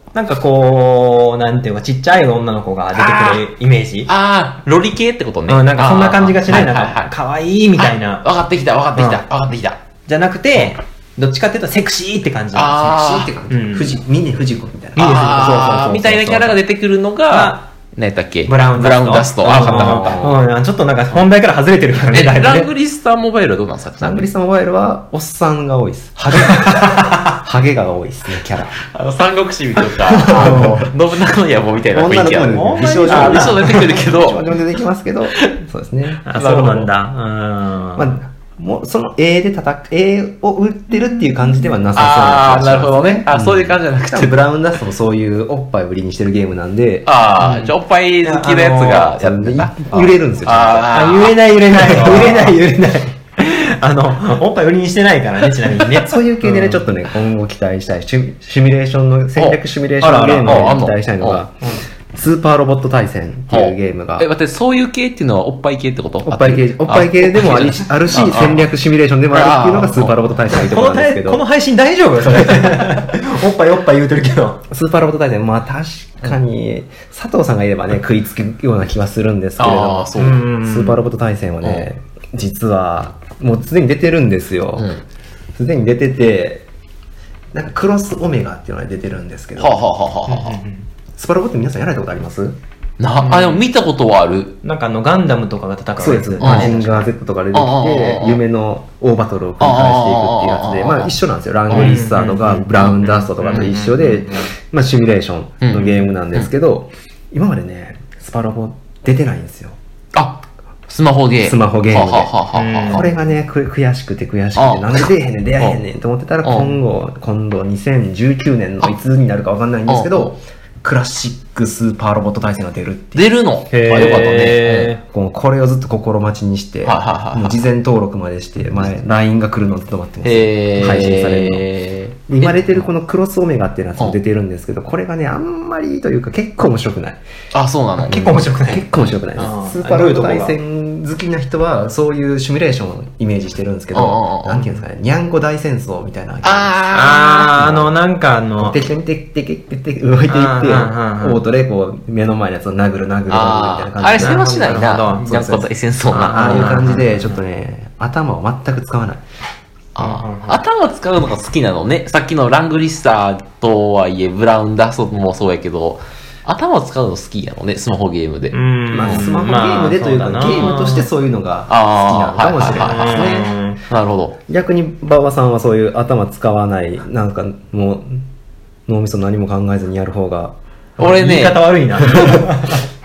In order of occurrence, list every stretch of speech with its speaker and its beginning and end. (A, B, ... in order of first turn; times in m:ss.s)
0:00.1-0:04.1 A
0:03.0-0:03.4 B
0:04.1-0:07.1 B
0:05.5-0:08.3 A
0:07.8-0:09.8 B
0:09.0-0:09.2 A
0:10.1-0:13.0 A
0:12.5-0:13.3 B
0:12.8-0:15.8 C
0:13.5-0:14.0 A
0:15.0-0:16.6 A
0:15.0-0:20.2 B
0:17.3-0:17.6 A
0:18.5-0:22.7 A
0:19.5-0:20.4 C
0:22.0-0:24.3 B
0:24.0-0:28.8 C
0:26.4-0:27.4 A
0:28.9-0:34.6 B
0:30.1-0:30.9 C
0:30.4-0:30.7 A
0:31.9-0:36.2 C
0:32.5-0:34.0 A
0:36.2-0:38.2 A
0:36.3-0:36.9 B
0:38.0-0:47.1 C
0:42.0-0:44.6 B
0:47.1-0:52.5 B
0:47.4-0:49.1 A
0:49.1-0:51.1 C
0:50.9-0:56.8 A
0:56.0-1:01.6 C
0:59.4-1:01.4 B
1:00.0-1:00.8 A
1:01.6-1:01.9 A
1:02.1-1:04.3 C
1:03.5-1:08.7 B
1:06.2-1:11.4 C
1:09.3-1:10.2 B
1:10.5-1:14.6 A
1:12.4-1:12.7 C
1:14.7-1:24.9 C
1:19.6-1:20.4 B
1:20.2-1:21.0 A
1:24.8-1:25.0 B
1:25.6-1:26.7 C
1:27.5-1:29.8 C
1:29.6-1:30.6 B
1:30.3-1:30.8 A
1:31.2-1:32.6 C
1:33.0-1:34.6 B
1:33.2-1:33.6 A
1:34.6-1:37.1 A
1:36.0-1:49.8 C
1:36.4-1:36.7 B
1:37.5-1:38.4 B
1:39.6-1:41.2 B
1:41.7-1:43.8 B
1:41.7-1:44.5 A
1:45.6-1:46.5 B
1:50.1-1:53.1 B
1:51.4-1:52.3 C
1:52.5-1:53.1 A
1:52.9-2:03.2 C
1:54.6-1:55.8 B
1:56.4-1:56.8 B
1:59.9-2:00.3 B
2:03.2-2:04.9 B
2:03.7-2:05.0 A
2:05.1-2:11.7 C
2:06.8-2:07.6 B
2:10.2-2:12.8 B
2:12.3-2:17.2 C
2:17.5-2:18.3 B
2:18.0-2:20.6 A
2:18.1-2:26.8 C
2:23.9-2:24.7 B
2:26.4-2:27.6 B
2:26.9-2:28.8 A
2:27.6-2:27.9 C
2:28.6-2:39.2 C
2:30.3-2:31.4 A
2:33.3-2:37.1 B
2:34.2-2:35.3 A
2:36.1-2:37.4 A
2:40.0-2:49.3 B
2:40.0-2:40.6 A
2:48.5-2:51.1 A
2:48.9-2:53.5 C
2:50.5-2:50.8 B
2:51.7-2:54.4 B
2:52.8-2:53.8 A
2:54.5-2:58.2 C
2:58.9-3:00.6 C
3:01.0-3:02.4 B
3:01.0-3:02.8 A
3:02.1-3:02.4 C